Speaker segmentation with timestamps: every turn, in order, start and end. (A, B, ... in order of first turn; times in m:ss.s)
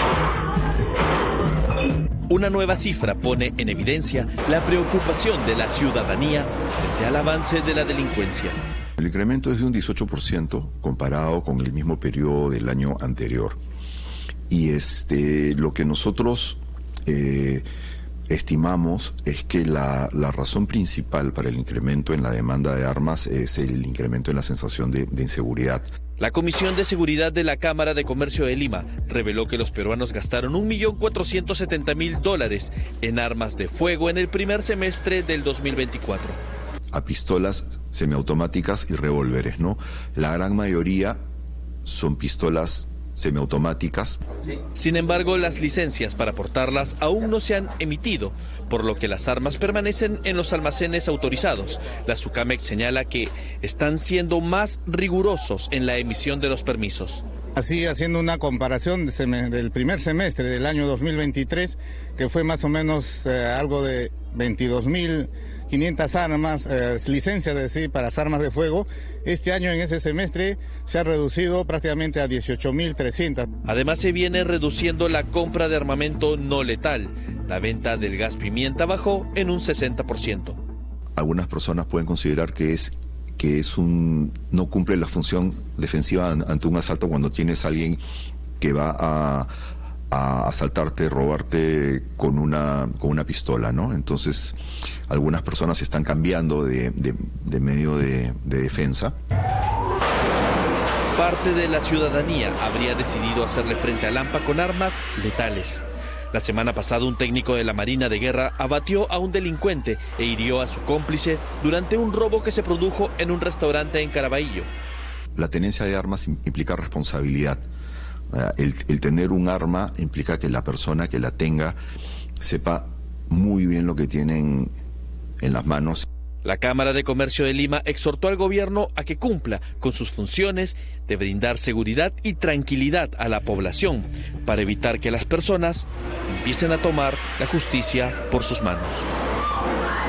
0:02.3-0:08.6 A
0:09.0-0:13.6 B
0:14.5-0:17.7 B
0:18.3-0:25.9 B
0:26.2-0:36.4 A
0:36.9-0:41.2 B
0:41.8-0:44.2 B
0:44.7-0:57.2 A
0:57.6-1:13.5 C
1:13.6-1:20.6 A
1:21.2-1:28.0 B
1:28.6-1:29.5 B
1:30.1-1:34.6 B
1:35.1-1:39.1 B
1:41.2-1:54.7 A
1:55.4-1:57.6 B
1:58.3-2:01.8 B
2:02.4-2:04.7 B
2:05.4-2:06.1 B
2:06.4-2:19.1 A